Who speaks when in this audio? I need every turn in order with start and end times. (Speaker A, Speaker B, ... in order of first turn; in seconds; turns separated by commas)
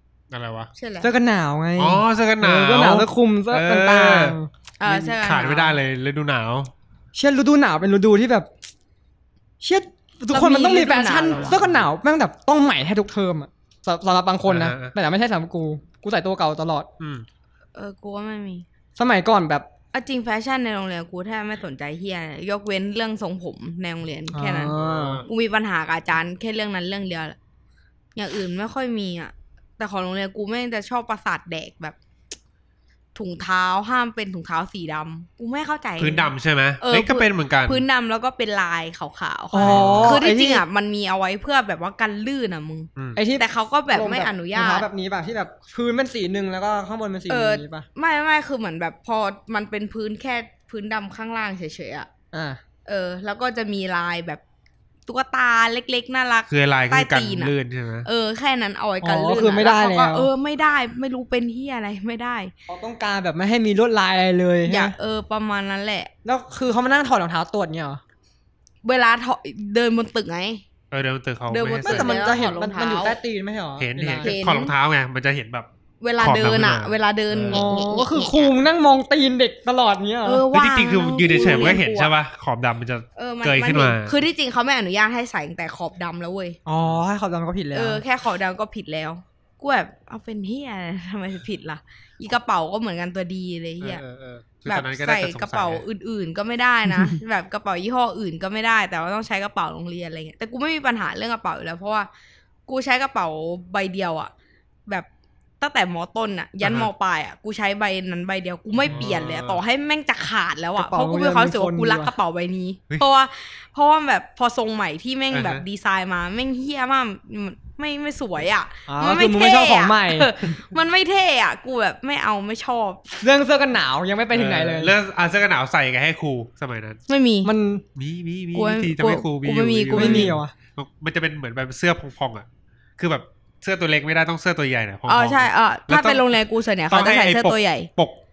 Speaker A: 0.3-0.7, Speaker B: 0.8-1.1, Speaker C: 1.0-4.5, Speaker A: 1.8-6.7, Speaker B: 4.8-5.8, Speaker C: 7.1-8.5, Speaker C: 9.6-16.9, Speaker B: 10.3-11.6, Speaker A: 11.4-11.8, Speaker A: 14.4-14.9, Speaker A: 17.0-17.3, Speaker B: 17.8-18.6, Speaker C: 18.9-19.7, Speaker B: 19.9-27.4, Speaker C: 24.3-25.2, Speaker A: 24.7-25.3, Speaker B: 28.1-31.9, Speaker B: 33.1-44.9, Speaker A: 36.0-37.8, Speaker C: 39.5-40.6, Speaker A: 39.6-40.2, Speaker C: 43.1-47.9, Speaker B: 47.3-52.1, Speaker C: 52.3-52.6, Speaker B: 52.9-54.4, Speaker B: 55.1-57.5, Speaker A: 56.5-58.1, Speaker B: 58.0-62.5, Speaker C: 59.0-60.3, Speaker C: 62.7-64.9, Speaker B: 64.7-66.1, Speaker C: 66.2-68.0, Speaker B: 68.8-70.6, Speaker A: 70.9-72.2, Speaker B: 71.5-73.2, Speaker C: 71.8-74.3, Speaker A: 73.8-75.7, Speaker B: 74.2-74.7, Speaker B: 76.0-78.5, Speaker A: 76.2-77.7, Speaker C: 77.5-80.4, Speaker B: 80.2-82.1, Speaker A: 80.5-84.1, Speaker C: 81.3-81.8, Speaker B: 83.2-86.6, Speaker C: 86.7-88.0, Speaker B: 87.7-94.0, Speaker A: 93.8-95.8, Speaker B: 94.6-102.1, Speaker B: 102.7-104.3, Speaker B: 105.6-123.1, Speaker A: 106.6-106.9, Speaker A: 108.8-109.6, Speaker C: 110.8-112.1, Speaker A: 115.3-115.6, Speaker C: 118.9-120.3, Speaker C: 123.2-124.9, Speaker A: 124.3-127.0, Speaker B: 127.1-127.5, Speaker C: 127.4-127.8, Speaker A: 128.0-132.5, Speaker B: 128.6-130.3, Speaker C: 129.9-130.5, Speaker A: 133.0-136.2, Speaker B: 135.1-137.9, Speaker A: 136.9-138.2